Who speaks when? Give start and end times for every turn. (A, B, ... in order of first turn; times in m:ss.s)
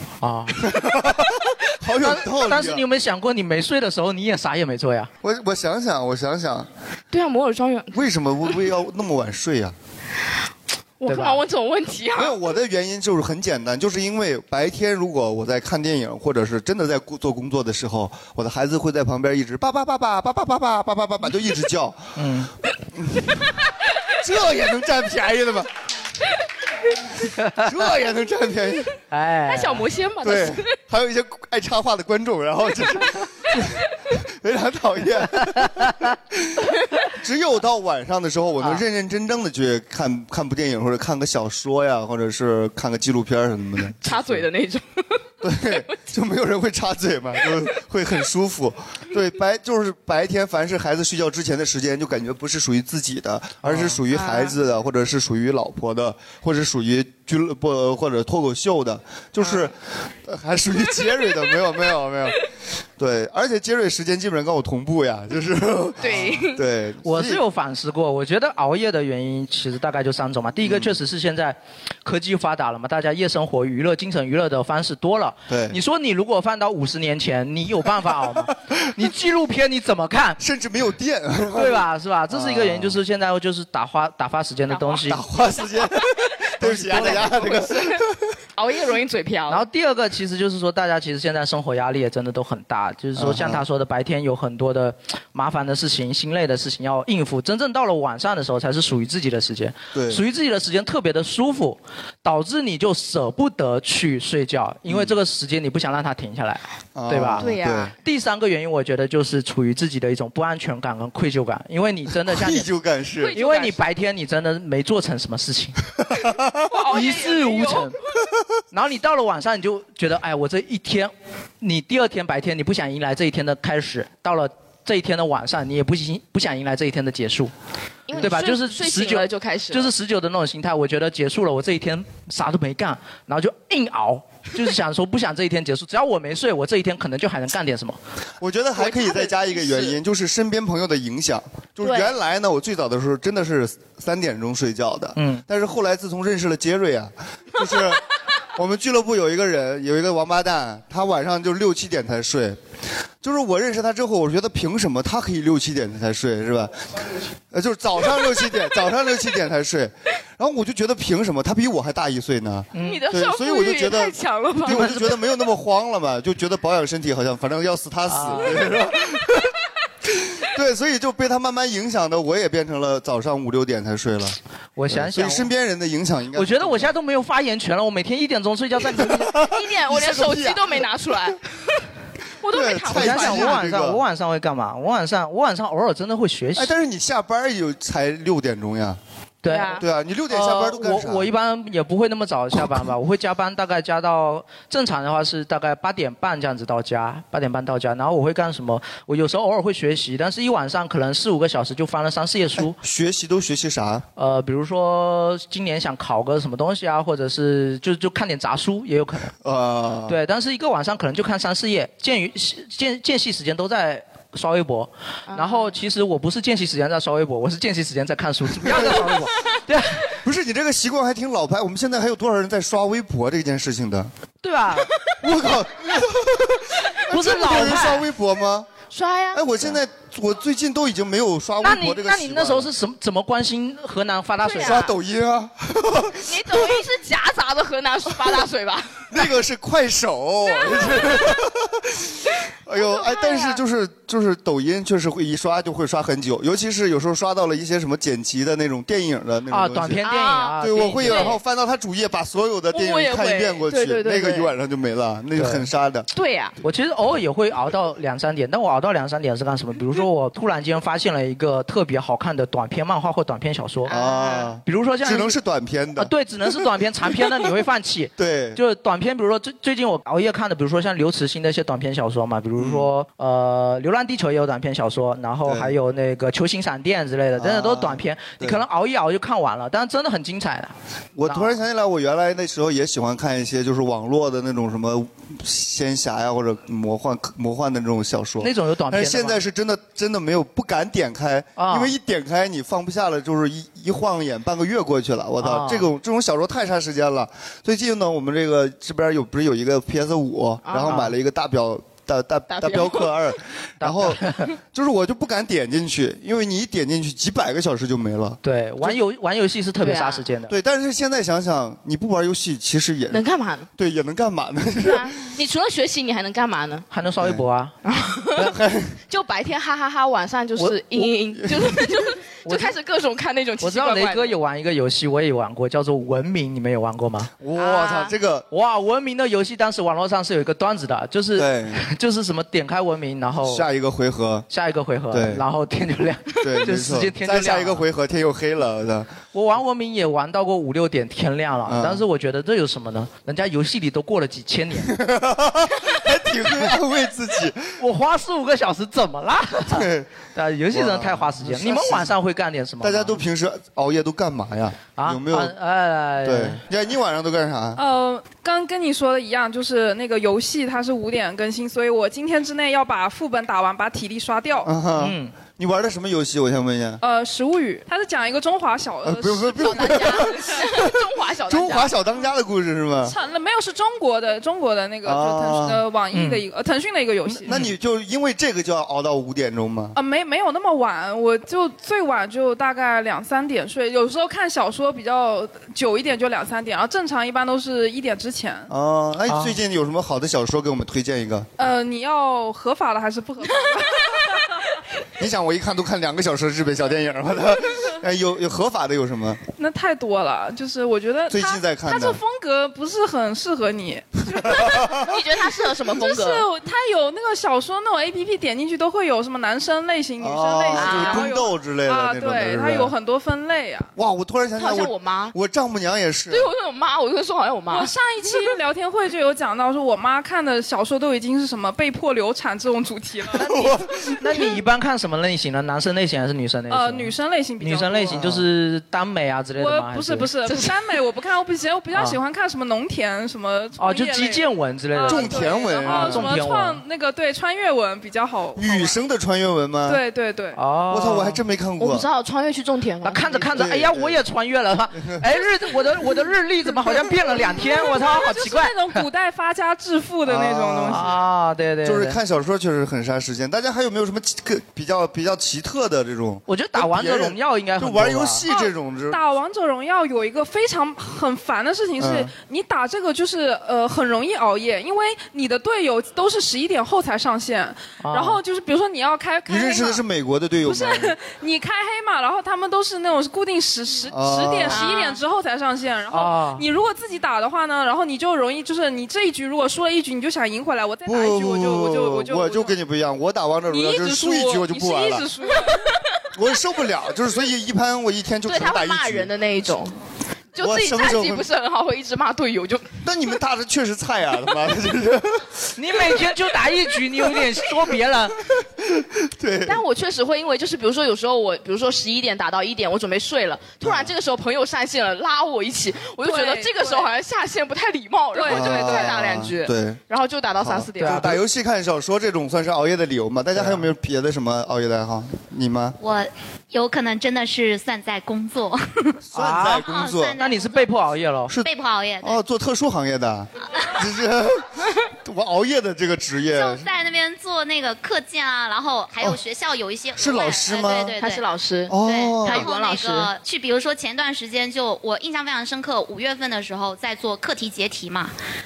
0:00.2-0:00.6 A
0:00.6-0:02.8 B
0:02.0-0:05.1 A
0:05.2-0:06.7 B
0:07.1-0:08.0 C
0:07.9-0:09.8 B
0:11.0-0:12.4 C
0:11.1-0:11.4 A
0:12.2-0:22.1 B
0:22.2-0:22.5 A
0:23.0-0:23.3 B
0:24.1-0:25.7 B
0:27.4-0:27.7 A
0:27.6-0:28.9 B
0:29.1-0:29.8 A
0:29.5-0:30.7 C
0:30.2-0:44.2 B
0:44.0-0:45.0 C
0:45.4-1:02.4 B
0:53.6-0:54.0 A
0:54.1-0:54.6 C
0:59.4-0:59.7 C
1:03.0-1:07.4 B
1:06.0-1:06.6 C
1:07.0-1:20.4 A
1:10.6-1:10.9 B
1:15.5-1:15.8 B
1:20.4-1:23.0 B
1:21.6-1:25.2 A
1:24.7-1:25.0 C
1:25.0-1:28.3 B
1:26.6-1:27.4 A
1:26.9-1:28.0 C
1:28.6-1:29.6 C
1:29.5-1:47.5 A
1:33.2-1:33.6 B
1:39.9-1:40.2 B
1:44.9-1:45.2 B
1:47.0-1:47.9 B
1:47.4-1:48.0 C
1:48.0-1:52.7 A
1:52.2-1:53.3 B
1:53.2-1:53.8 C
1:53.3-1:55.8 A
1:56.2-1:56.7 B
1:56.7-1:57.9 C
1:56.9-1:58.0 A
1:58.7-2:07.5 A
2:08.1-2:09.9 C
2:08.2-2:18.0 A
2:18.4-2:28.0 B
2:18.8-2:20.0 C
2:21.8-2:22.1 C
2:25.2-2:25.4 A
2:28.6-2:32.6 B
2:33.2-2:36.7 B
2:37.5-2:49.5 B
2:42.7-2:43.0 A
2:42.8-2:45.0 C
2:48.1-2:48.8 A
2:50.1-2:54.4 B
2:54.8-2:55.5 A
2:54.9-2:56.9 B
2:56.4-2:59.3 A
2:59.0-3:00.6 B
2:59.5-3:01.4 C
3:02.4-3:03.6 C
3:02.5-3:04.0 B
3:02.9-3:06.7 A
3:06.6-3:09.0 B
3:09.4-3:22.8 A
3:09.5-3:09.8 C
3:09.8-3:11.3 B
3:22.6-3:24.0 B
3:24.2-3:29.3 A
3:29.4-3:30.2 B
3:30.1-3:40.1 A
3:35.3-3:35.7 C
3:38.6-3:39.1 B
3:40.2-3:44.1 B
3:44.4-3:44.9 A
3:45.2-3:48.7 B
3:47.1-3:48.1 A
3:48.9-3:49.8 C
3:49.3-3:52.7 B
3:51.6-3:54.8 A
3:54.4-3:54.9 C
3:54.6-3:56.7 B
3:56.2-3:59.2 C
3:59.1-4:10.1 B
4:00.6-4:01.2 C
4:02.8-4:03.6 C
4:09.5-4:11.4 A
4:10.0-4:11.4 C
4:10.6-4:16.1 B
4:12.7-4:14.5 C
4:15.4-4:15.7 A
4:16.1-4:16.6 C
4:16.6-4:23.9 A
4:23.9-4:24.5 C
4:23.9-4:26.6 B
4:24.6-4:25.4 A
4:26.0-4:40.7 A
4:28.2-4:28.6 B
4:32.6-4:32.9 B
4:35.5-4:35.8 B
4:37.4-4:38.6 B
4:41.2-5:09.0 B
4:41.3-4:41.5 A
4:48.4-4:49.4 A
4:51.6-4:51.9 A
4:55.4-4:55.9 A
5:00.7-5:01.0 C
5:00.8-5:01.1 A
5:02.5-5:03.3 C
5:03.8-5:04.5 A
5:08.4-5:10.5 A
5:09.8-5:10.2 C
5:10.5-5:13.2 B
5:13.1-5:13.7 C
5:13.8-5:15.1 B
5:14.8-5:16.9 C
5:16.9-5:17.8 A
5:17.8-5:18.5 C
5:18.4-5:19.0 B
5:19.1-5:24.4 C
5:20.6-5:21.1 A
5:22.4-5:22.7 A
5:23.6-5:27.3 A
5:27.4-5:28.5 B
5:27.6-5:28.1 C
5:28.5-5:33.7 A
5:31.4-5:31.8 B
5:33.4-5:34.5 B
5:34.5-5:37.8 A
5:35.1-5:35.4 B
5:36.4-5:39.1 B
5:39.3-5:45.0 A
5:41.7-5:42.0 B
5:44.9-5:47.8 B
5:47.8-5:53.2 A
5:49.7-5:50.1 B
5:50.7-5:52.1 B
5:52.8-5:55.5 B
5:55.0-5:56.6 A
5:56.2-5:57.8 B
5:57.8-6:04.7 D
6:04.6-6:07.0 B
6:05.0-6:05.3 A
6:07.0-6:10.3 D
6:09.0-6:13.2 B
6:09.6-6:11.9 C
6:13.0-6:17.6 D
6:15.0-6:15.8 B
6:16.1-6:16.4 A
6:17.3-6:20.0 B
6:20.0-6:28.7 D
6:28.7-6:31.5 B
6:29.3-6:29.6 A
6:31.6-6:34.4 D
6:35.2-6:39.4 B
6:39.6-6:45.1 D
6:41.3-6:42.2 B
6:44.3-6:45.0 B
6:45.0-6:46.5 C
6:45.9-6:53.9 D
6:50.2-6:52.9 B
6:50.8-6:51.3 C
6:54.0-6:56.5 B
6:54.6-6:55.4 C
6:56.3-6:57.9 C
6:57.7-7:03.5 D
7:03.4-7:10.3 A
7:03.4-7:04.1 B
7:06.7-7:08.2 D
7:08.1-7:08.4 B
7:09.6-7:19.0 D
7:11.9-7:12.2 A
7:13.8-7:16.8 A
7:15.1-7:16.3 B
7:18.6-7:20.0 B
7:19.9-7:20.6 D
7:20.6-7:21.4 A
7:20.9-7:22.1 B
7:21.8-7:23.6 C
7:23.0-7:29.1 A
7:23.5-7:24.2 B
7:25.0-7:25.3 B
7:27.6-7:31.2 D
7:30.3-7:31.1 B
7:30.9-7:32.2 A
7:31.8-7:39.2 B
7:36.5-7:38.5 A
7:38.5-7:50.0 D
7:42.0-7:42.3 B
7:48.0-7:48.4 A
7:49.5-7:51.2 B
7:50.6-8:02.7 D
7:54.1-7:54.9 B
7:54.7-7:55.2 C
7:56.1-7:56.6 A
8:01.1-8:05.3 B
8:03.7-8:05.8 D
8:06.4-8:09.3 B
8:08.5-8:10.0 C
8:10.6-8:12.9 C
8:10.6-8:11.5 B
8:13.0-8:15.5 B
8:15.8-8:18.4 A
8:19.0-8:19.8 B
8:19.7-8:31.3 C
8:23.8-8:24.1 B
8:26.2-8:27.1 D
8:28.3-8:29.2 D
8:28.5-8:30.0 B
8:30.6-8:36.0 B
8:31.0-8:31.4 A
8:33.6-8:33.8 A
8:36.0-8:39.1 E
8:39.3-8:40.4 B
8:39.4-8:39.9 A
8:39.7-8:40.9 E
8:40.4-8:41.5 A
8:41.6-8:42.4 E
8:42.2-8:46.9 B
8:46.5-8:51.4 E
8:50.2-8:51.2 B
8:51.2-8:53.3 C
8:51.9-8:52.7 B
8:52.0-8:58.4 E